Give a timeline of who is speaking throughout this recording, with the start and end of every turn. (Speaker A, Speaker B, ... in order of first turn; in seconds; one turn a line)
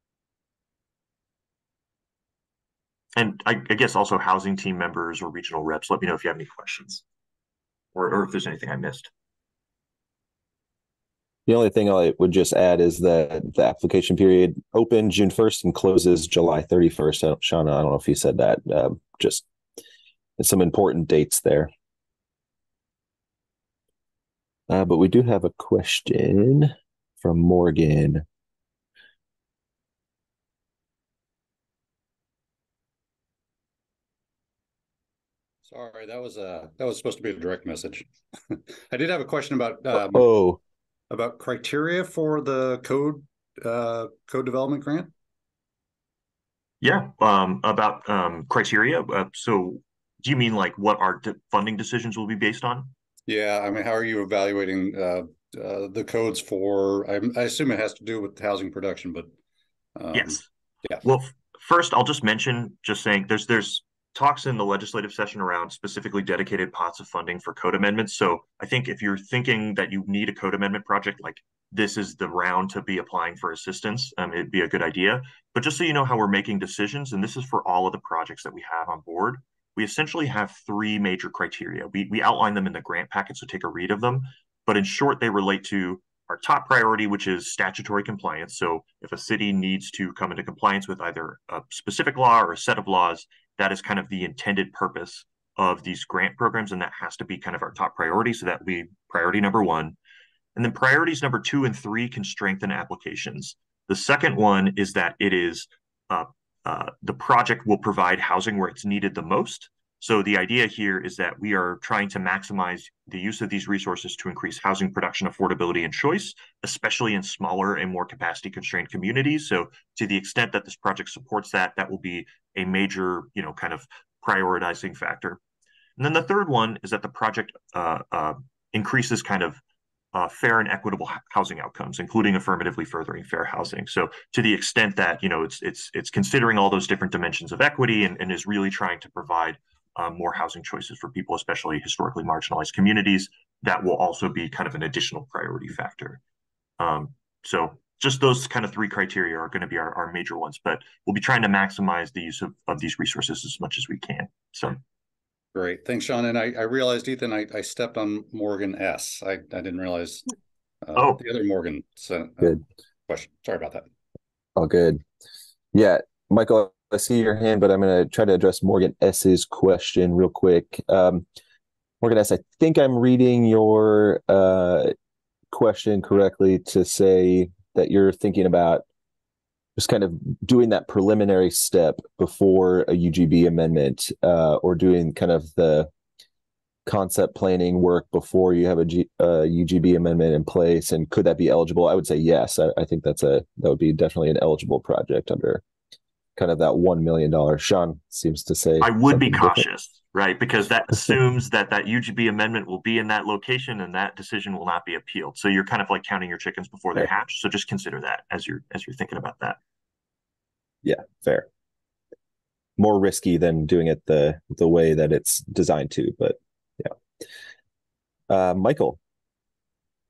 Speaker A: 3.2-7.0
Speaker A: 8.0-9.1
Speaker B: 11.5-19.5
Speaker B: 20.4-21.7
Speaker B: 24.7-28.2
Speaker C: 35.7-40.3
Speaker B: 40.1-40.6
Speaker C: 41.1-45.1
Speaker A: 46.8-52.9
Speaker C: 53.3-59.3
Speaker C: 60.0-61.0
Speaker A: 60.1-60.5
Speaker A: 61.0-100.0
Speaker A: 100.5-125.4
Speaker A: 126.0-129.6
Speaker A: 130.1-146.2
Speaker A: 146.8-154.8
Speaker C: 155.5-160.3
Speaker C: 160.8-163.9
Speaker A: 160.9-161.2
Speaker B: 164.6-165.0
Speaker B: 165.7-171.2
Speaker B: 172.0-174.9
Speaker B: 175.5-178.8
Speaker B: 179.8-185.9
Speaker B: 186.9-195.6
Speaker B: 196.4-199.6
Speaker A: 198.8-209.6
Speaker B: 210.8-211.5
Speaker B: 212.8-216.9
Speaker B: 218.3-219.0